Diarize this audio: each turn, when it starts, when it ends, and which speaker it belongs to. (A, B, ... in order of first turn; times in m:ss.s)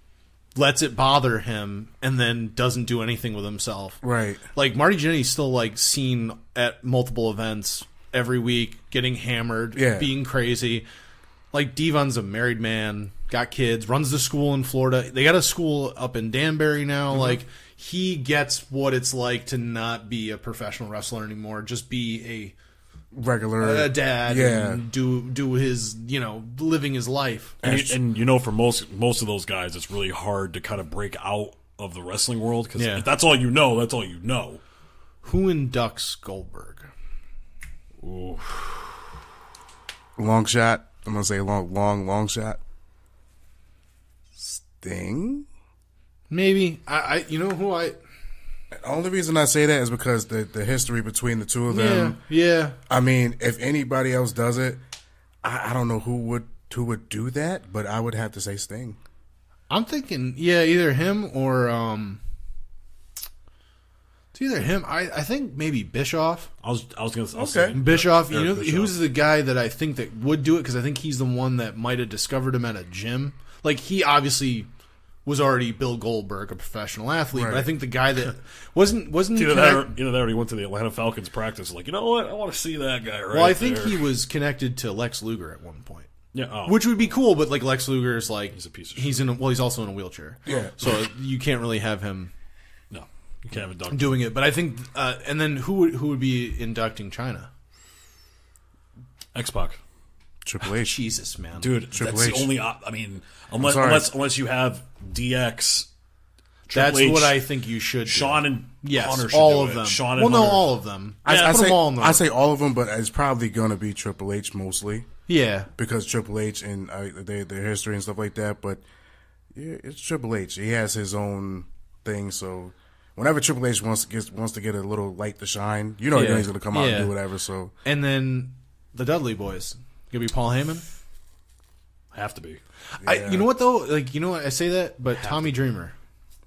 0:00.6-0:04.0 A
0:04.0-0:04.4 B
0:04.6-0:10.9 A
0:09.8-0:10.1 B
0:11.5-0:22.6 A
0:17.1-0:17.4 B
0:23.1-0:24.8 B
0:23.6-0:27.6 A
0:27.6-0:28.0 B
0:27.6-0:34.6 C
0:32.8-0:33.1 A
0:35.2-0:36.9 A
0:38.0-0:39.1 C
0:40.2-0:42.6 B
0:44.4-0:45.5 B
0:46.3-0:48.0 A
0:48.8-0:52.2 B
0:51.7-0:52.8 A
0:52.9-0:54.8 B
0:55.4-0:59.0 B
0:59.7-1:02.2 A
1:04.3-1:06.5 A
1:06.6-1:09.0 C
1:07.4-1:07.8 B
1:07.7-1:14.7 A
1:15.2-1:19.9 A
1:17.3-1:17.7 B
1:19.3-1:24.1 C
1:23.3-1:26.1 A
1:26.3-1:27.0 C
1:26.6-1:32.3 A
1:28.5-1:29.2 C
1:30.5-1:30.8 B
1:32.9-1:34.3 C
1:33.9-1:37.5 A
1:39.3-1:39.8 C
1:40.4-1:41.0 B
1:40.9-1:41.8 A
1:41.6-1:45.9 C
1:41.9-1:42.5 B
1:43.6-1:44.1 B
1:46.7-1:47.4 C
1:46.7-1:52.2 A
1:48.0-1:50.7 C
1:51.2-1:51.6 C
1:51.3-1:55.1 B
1:55.3-1:55.7 A
1:55.8-1:58.8 B
1:59.5-2:07.7 B
2:06.1-2:07.1 A
2:07.8-2:10.8 A
2:12.1-2:12.6 C
2:13.0-2:16.0 A
2:13.1-2:13.4 B
2:15.2-2:15.5 C